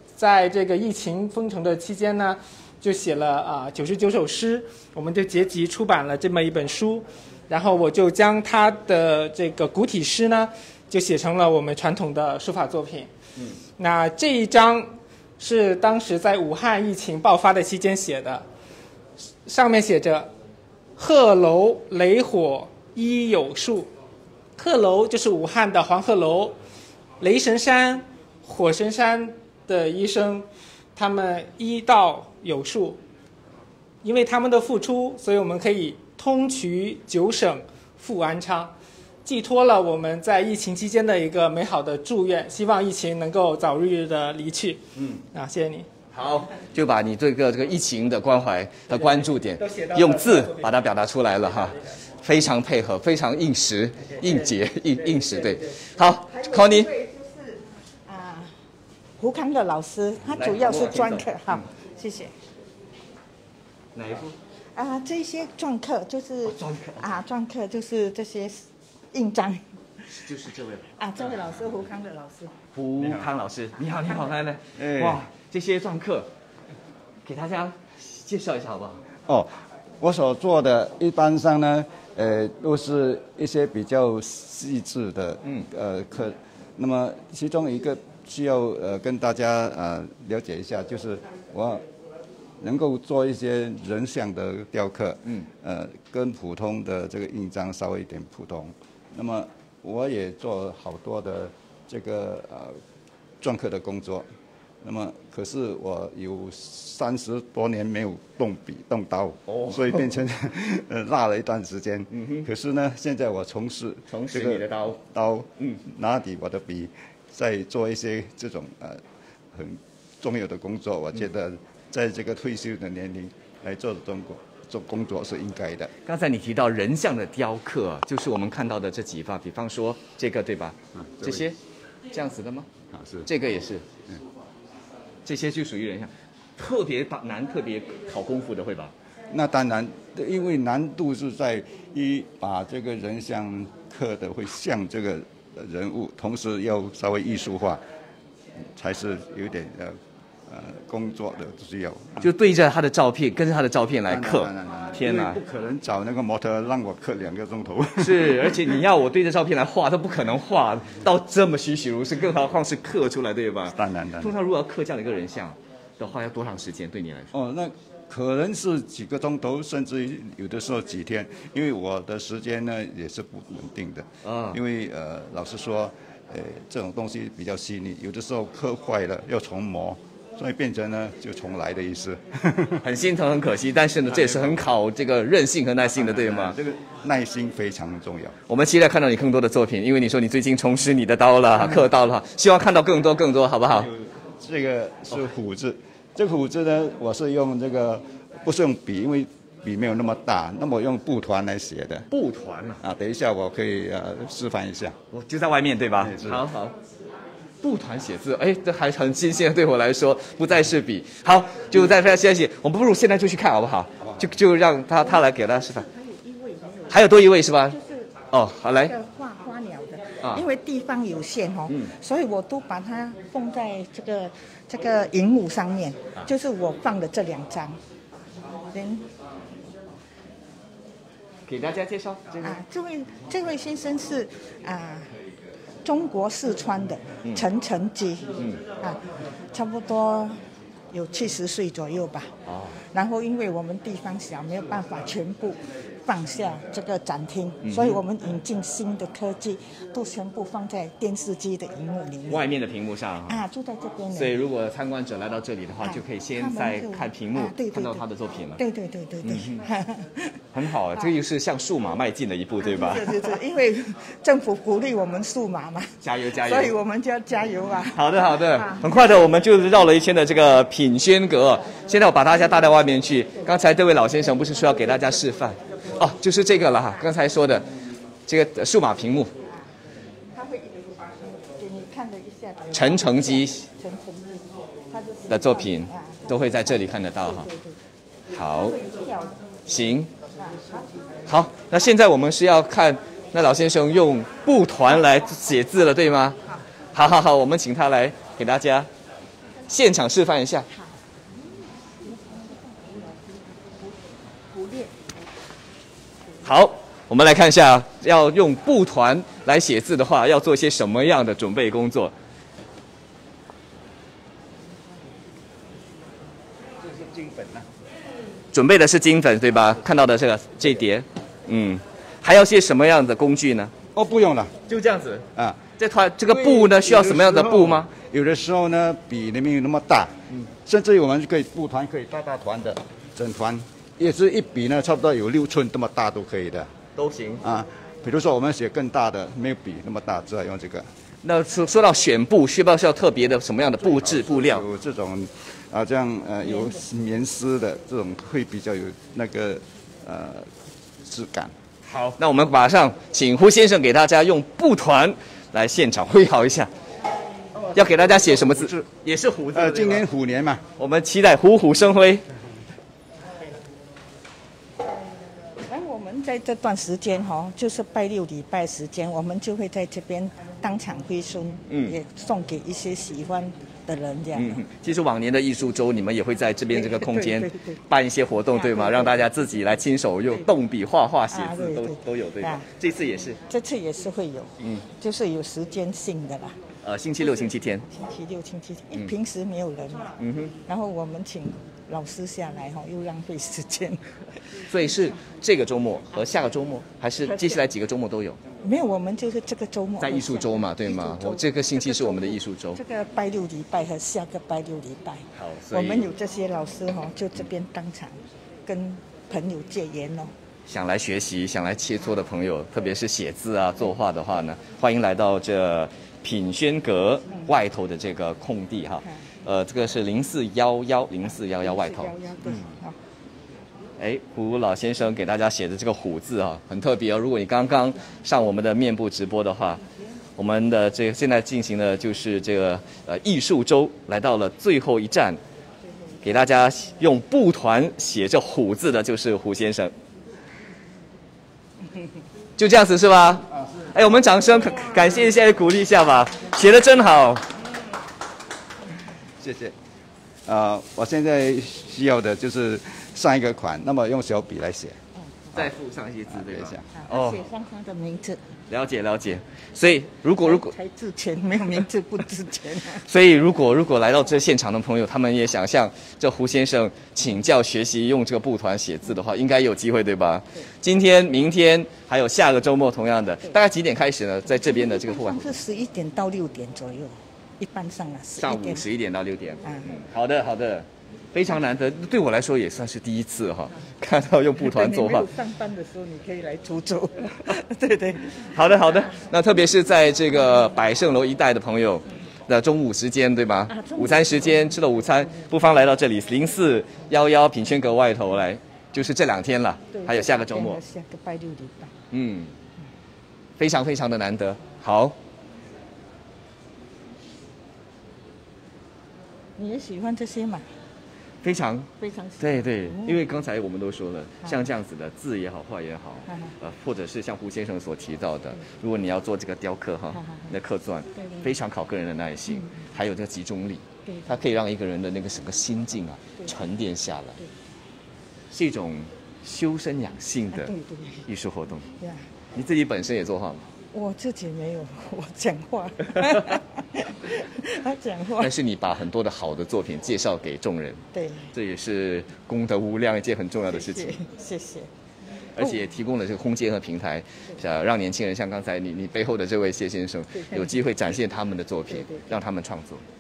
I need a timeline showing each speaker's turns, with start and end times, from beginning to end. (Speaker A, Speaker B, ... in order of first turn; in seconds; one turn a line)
Speaker A: 0.2-13.1
Speaker A: 13.8-18.4
Speaker A: 19.5-20.3
Speaker A: 21.0-23.9
Speaker A: 24.6-26.6
Speaker A: 27.2-33.0
Speaker A: 34.0-38.7
Speaker A: 39.2-44.8
Speaker B: 45.0-45.2
Speaker A: 45.3-45.9
Speaker B: 46.1-56.9
Speaker A: 49.6-50.5
Speaker C: 56.3-58.5
Speaker C: 59.2-62.3
Speaker B: 60.3-61.6
Speaker B: 64.0-64.4
Speaker C: 64.8-69.6
Speaker B: 66.4-67.1
Speaker B: 70.2-71.6
Speaker C: 71.0-72.5
Speaker B: 72.7-76.3
Speaker C: 74.0-74.3
Speaker D: 74.8-75.2
Speaker B: 77.2-79.1
Speaker D: 79.3-91.8
Speaker B: 85.4-85.7
Speaker D: 92.6-102.8
Speaker D: 103.4-104.3
Speaker D: 104.8-119.0
Speaker B: 109.5-110.2
Speaker B: 112.1-112.5
Speaker B: 114.1-115.0
Speaker D: 119.5-125.9
Speaker B: 126.0-131.6
Speaker D: 130.9-131.4
Speaker B: 132.1-132.7
Speaker D: 132.9-133.3
Speaker B: 133.3-133.9
Speaker B: 135.2-138.9
Speaker D: 139.3-147.8
Speaker D: 148.8-150.0
Speaker D: 150.5-152.3
Speaker B: 152.2-155.4
Speaker D: 154.1-158.6
Speaker B: 158.0-167.3
Speaker D: 163.8-164.3
Speaker D: 167.3-182.8
Speaker B: 174.2-174.6
Speaker B: 182.8-186.6
Speaker D: 184.1-184.6
Speaker D: 185.9-188.4
Speaker B: 188.5-193.9
Speaker D: 193.8-202.1
Speaker B: 202.1-202.8
Speaker D: 202.8-205.0
Speaker B: 205.1-206.8
Speaker D: 206.0-206.4
Speaker B: 207.6-215.8
Speaker C: 215.0-218.2
Speaker B: 216.9-217.8
Speaker B: 218.3-218.9
Speaker C: 218.8-227.8
Speaker C: 228.7-229.1
Speaker B: 231.5-232.6
Speaker C: 232.4-235.1
Speaker C: 235.8-239.0
Speaker C: 239.5-240.4
Speaker C: 240.9-242.3
Speaker B: 242.5-242.8
Speaker C: 242.9-252.5
Speaker B: 247.6-248.0
Speaker B: 252.3-253.4
Speaker C: 253.3-254.4
Speaker B: 254.1-258.6
Speaker C: 255.8-258.0
Speaker C: 258.6-260.4
Speaker B: 259.2-259.6
Speaker B: 260.5-263.4
Speaker C: 262.6-269.2
Speaker B: 266.0-266.8
Speaker B: 267.9-277.7
Speaker C: 274.3-275.1
Speaker B: 278.3-279.3
Speaker C: 280.3-284.4
Speaker B: 282.7-283.7
Speaker C: 284.9-287.8
Speaker B: 285.3-287.5
Speaker B: 288.3-288.8
Speaker C: 288.4-289.5
Speaker B: 289.7-290.1
Speaker C: 290.4-291.2
Speaker B: 291.3-296.4
Speaker B: 296.9-298.9
Speaker B: 299.7-300.7
Speaker C: 302.1-303.1
Speaker C: 304.5-304.9
Speaker B: 306.4-312.1
Speaker D: 317.1-317.5
Speaker B: 318.5-323.7
Speaker D: 323.9-324.5
Speaker B: 324.7-325.3
Speaker D: 325.4-325.6
Speaker B: 325.8-327.9
Speaker D: 326.3-336.7
Speaker B: 337.0-337.4
Speaker D: 337.4-340.9
Speaker B: 341.2-344.6
Speaker D: 344.0-350.5
Speaker D: 351.1-351.5
Speaker B: 351.9-356.7
Speaker B: 357.7-360.1
Speaker D: 359.6-360.6
Speaker B: 360.8-362.2
Speaker C: 365.6-374.6
Speaker B: 371.7-372.0
Speaker B: 374.4-383.4
Speaker C: 376.7-377.8
Speaker C: 378.5-379.2
Speaker C: 381.3-382.7
Speaker C: 383.5-386.6
Speaker B: 386.8-387.9
Speaker C: 387.2-394.0
Speaker B: 390.2-390.5
Speaker B: 394.7-398.4
Speaker C: 397.2-397.6
Speaker C: 398.6-410.3
Speaker B: 400.0-402.8
Speaker B: 405.4-406.1
Speaker B: 410.7-422.6
Speaker C: 421.5-423.0
Speaker B: 424.0-429.8
Speaker B: 430.4-435.4
Speaker B: 436.2-439.9
Speaker B: 442.6-447.5
Speaker D: 449.4-449.7
Speaker D: 450.5-455.0
Speaker C: 455.4-455.6
Speaker B: 455.5-457.5
Speaker D: 456.3-456.8
Speaker C: 457.0-458.5
Speaker B: 458.7-460.7
Speaker C: 460.3-463.1
Speaker B: 463.1-475.6
Speaker C: 474.6-478.8
Speaker B: 478.4-485.3
Speaker C: 479.6-480.0
Speaker C: 484.6-488.5
Speaker B: 488.5-500.8
Speaker C: 493.7-495.3
Speaker C: 499.9-501.9
Speaker B: 502.1-502.5
Speaker B: 503.6-505.2
Speaker C: 509.6-510.7
Speaker B: 511.4-527.4
Speaker C: 512.0-513.2
Speaker C: 516.3-516.6
Speaker C: 520.1-520.5
Speaker C: 521.2-521.6
Speaker C: 524.1-524.5
Speaker C: 526.4-526.7
Speaker B: 528.5-530.7
Speaker C: 530.5-531.2
Speaker B: 531.2-531.9
Speaker B: 532.5-533.7
Speaker C: 533.9-538.5
Speaker B: 538.4-544.2
Speaker C: 541.1-541.5
Speaker C: 543.7-544.9
Speaker B: 545.6-553.0
Speaker C: 550.3-550.8
Speaker C: 551.9-552.4